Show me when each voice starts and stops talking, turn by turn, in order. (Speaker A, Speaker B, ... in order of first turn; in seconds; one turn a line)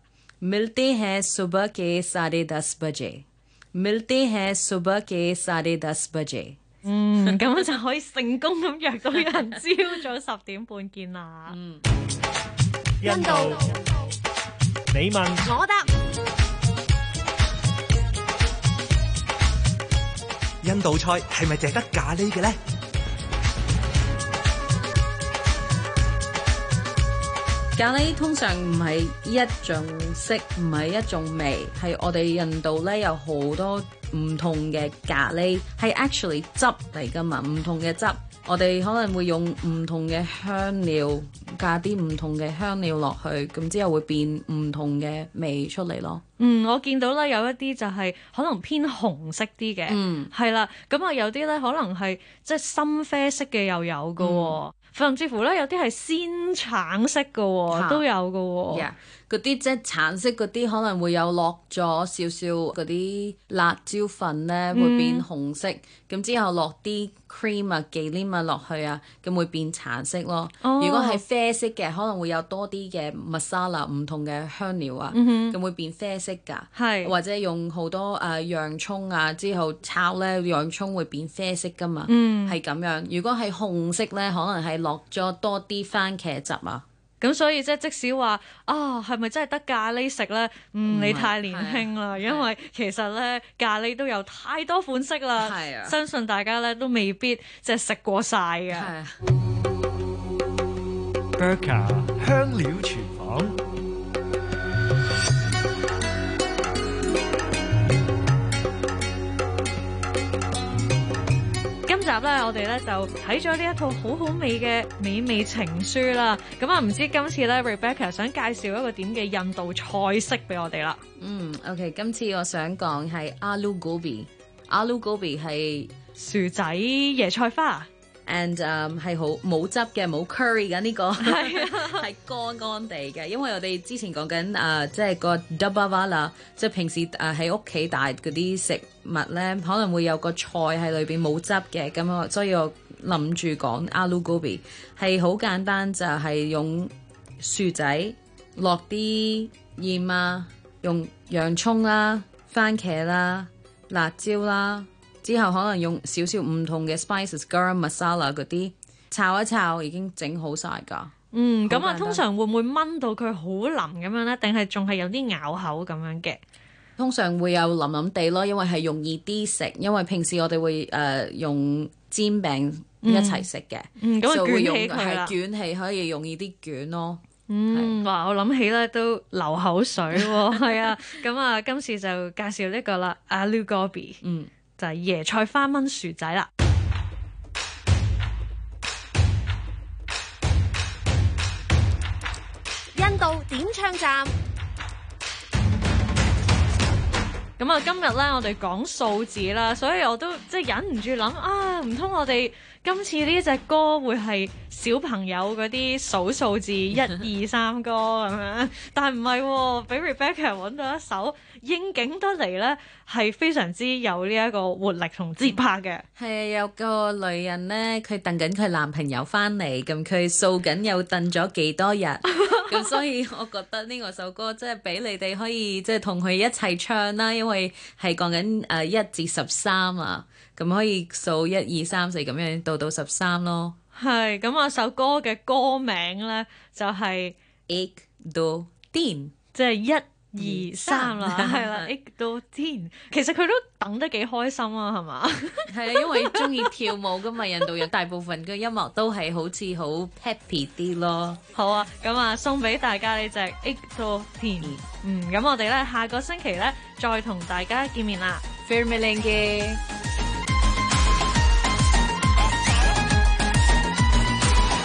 Speaker A: 0.4-6.6
Speaker B: 6.8-11.6
Speaker A: 7.2-7.6
Speaker A: 9.1-9.6
Speaker A: 11.5-11.8
Speaker C: 13.0-13.7
Speaker D: 13.0-14.1
Speaker C: 14.9-15.5
Speaker D: 15.4-15.9
Speaker E: 20.6-22.6
Speaker A: 27.8-46.2
Speaker B: 46.4-58.9
Speaker A: 49.9-50.3
Speaker A: 54.2-54.6
Speaker A: 57.7-58.0
Speaker A: 58.7-86.8
Speaker B: 64.7-65.2
Speaker B: 70.6-71.2
Speaker B: 75.1-75.5
Speaker B: 76.8-77.1
Speaker B: 82.1-82.6
Speaker B: 87.2-98.9
Speaker A: 90.9-92.5
Speaker A: 95.4-96.0
Speaker A: 98.7-99.2
Speaker C: 101.4-103.6
Speaker B: 111.8-121.0
Speaker A: 121.2-125.9
Speaker B: 126.2-127.9
Speaker A: 128.2-161.1
Speaker B: 131.2-132.0
Speaker B: 161.3-166.4
Speaker A: 161.7-162.2
Speaker A: 167.0-178.0
Speaker B: 173.0-173.5
Speaker B: 174.0-175.3
Speaker B: 177.5-184.2
Speaker A: 180.2-180.8
Speaker A: 184.2-184.5
Speaker B: 184.8-186.5
Speaker D: 192.9-194.3
Speaker B: 197.6-216.0
Speaker A: 216.2-233.8
Speaker B: 233.9-237.3
Speaker A: 237.7-239.3
Speaker B: 239.5-246.7
Speaker A: 240.4-241.9
Speaker A: 245.7-251.4
Speaker B: 251.5-258.4
Speaker A: 258.6-259.8